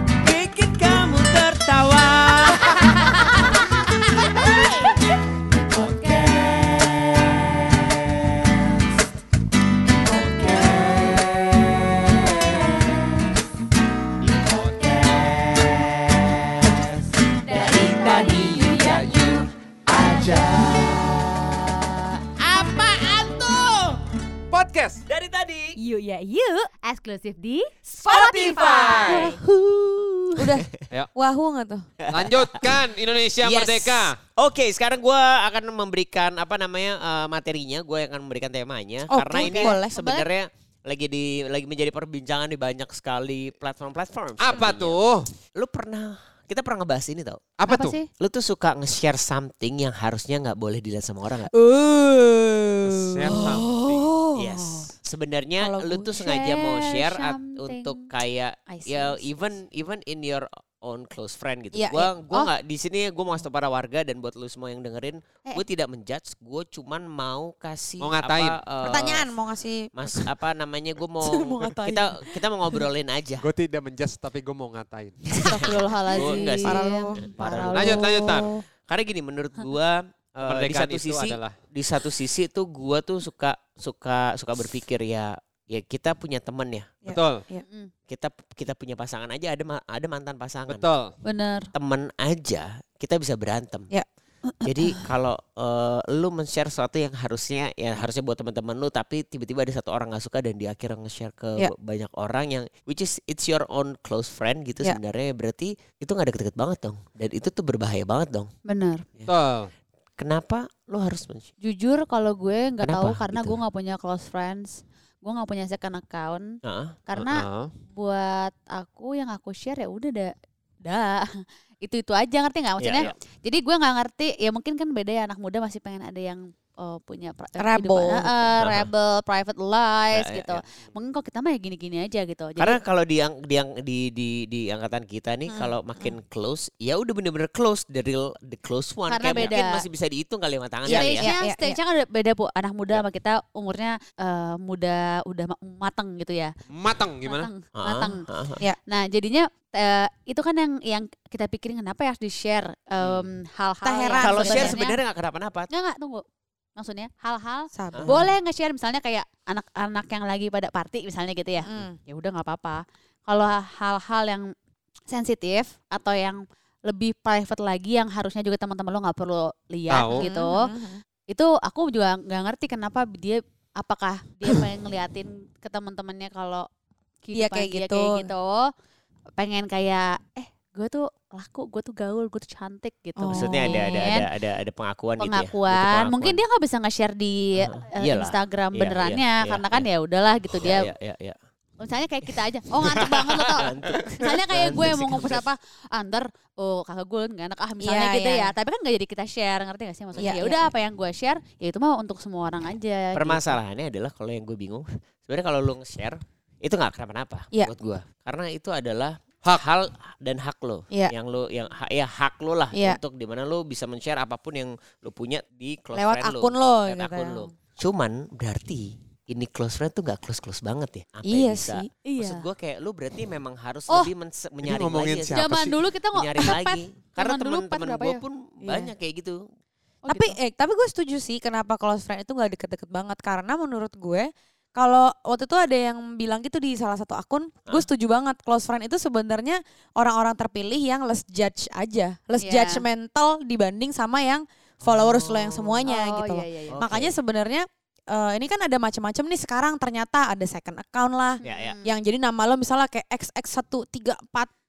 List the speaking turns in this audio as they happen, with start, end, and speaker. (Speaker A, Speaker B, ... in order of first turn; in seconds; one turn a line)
Speaker A: 0.2-2.8
Speaker B: 17.4-19.3
Speaker A: 22.4-24.0
Speaker C: 24.5-25.0
Speaker A: 25.1-25.8
Speaker B: 25.8-27.7
Speaker C: 28.0-29.4
Speaker B: 28.6-29.3
Speaker A: 28.8-30.5
Speaker D: 30.4-31.9
Speaker A: 32.1-32.9
Speaker C: 32.1-34.2
Speaker A: 33.4-45.0
Speaker D: 39.1-39.9
Speaker B: 39.4-40.2
Speaker C: 44.4-45.3
Speaker A: 45.5-47.4
Speaker C: 47.6-48.0
Speaker B: 47.7-48.1
Speaker A: 48.2-51.5
Speaker D: 51.5-54.9
Speaker C: 52.8-54.1
Speaker A: 54.4-69.3
Speaker D: 55.6-56.2
Speaker B: 56.1-58.1
Speaker B: 58.7-59.2
Speaker D: 61.7-62.4
Speaker C: 68.0-68.6
Speaker D: 68.8-70.3
Speaker A: 69.9-73.5
Speaker D: 71.2-72.8
Speaker C: 73.4-75.4
Speaker D: 75.3-77.3
Speaker A: 75.4-78.0
Speaker B: 75.5-78.1
Speaker C: 77.7-78.5
Speaker D: 78.0-78.6
Speaker A: 78.9-86.9
Speaker C: 80.4-81.5
Speaker D: 87.0-87.6
Speaker C: 87.1-87.4
Speaker B: 87.6-87.9
Speaker A: 88.1-90.8
Speaker C: 90.7-91.1
Speaker B: 91.2-91.7
Speaker A: 91.7-93.9
Speaker B: 94.6-95.0
Speaker A: 94.6-108.5
Speaker B: 108.6-109.0
Speaker C: 109.3-109.7
Speaker A: 110.2-111.5
Speaker B: 111.6-116.5
Speaker A: 112.8-113.6
Speaker A: 116.6-117.0
Speaker B: 117.1-120.3
Speaker C: 117.2-117.7
Speaker B: 120.8-132.8
Speaker A: 122.8-123.2
Speaker D: 127.6-128.5
Speaker A: 128.6-128.9
Speaker A: 130.2-130.9
Speaker A: 132.6-141.3
Speaker B: 139.1-139.8
Speaker B: 140.8-146.5
Speaker D: 140.9-141.8
Speaker C: 146.7-147.5
Speaker B: 147.2-148.2
Speaker A: 147.8-148.6
Speaker B: 148.8-155.0
Speaker A: 153.0-153.3
Speaker D: 153.8-154.8
Speaker A: 154.2-155.7
Speaker B: 155.7-156.2
Speaker B: 156.8-164.4
Speaker D: 157.7-158.3
Speaker D: 161.6-162.0
Speaker B: 165.1-170.6
Speaker C: 169.9-170.3
Speaker D: 170.1-171.0
Speaker B: 171.3-176.7
Speaker B: 177.2-178.6
Speaker D: 177.3-178.3
Speaker B: 179.4-184.3
Speaker D: 183.2-183.7
Speaker A: 183.3-186.4
Speaker B: 185.2-190.9
Speaker A: 187.6-189.8
Speaker A: 190.5-191.4
Speaker B: 191.8-203.6
Speaker A: 192.3-195.4
Speaker D: 197.8-198.5
Speaker A: 200.1-200.4
Speaker D: 200.2-200.6
Speaker A: 203.1-225.5
Speaker D: 212.7-213.0
Speaker D: 215.9-217.5
Speaker D: 221.2-221.9
Speaker B: 222.0-222.4
Speaker C: 224.6-225.8
Speaker B: 225.3-228.2
Speaker A: 226.1-229.4
Speaker D: 228.6-228.9
Speaker B: 230.0-230.3
Speaker D: 230.1-254.5
Speaker B: 242.4-242.8
Speaker A: 244.8-245.8
Speaker B: 245.8-246.8
Speaker A: 246.7-247.2
Speaker B: 251.4-251.9
Speaker A: 251.4-251.7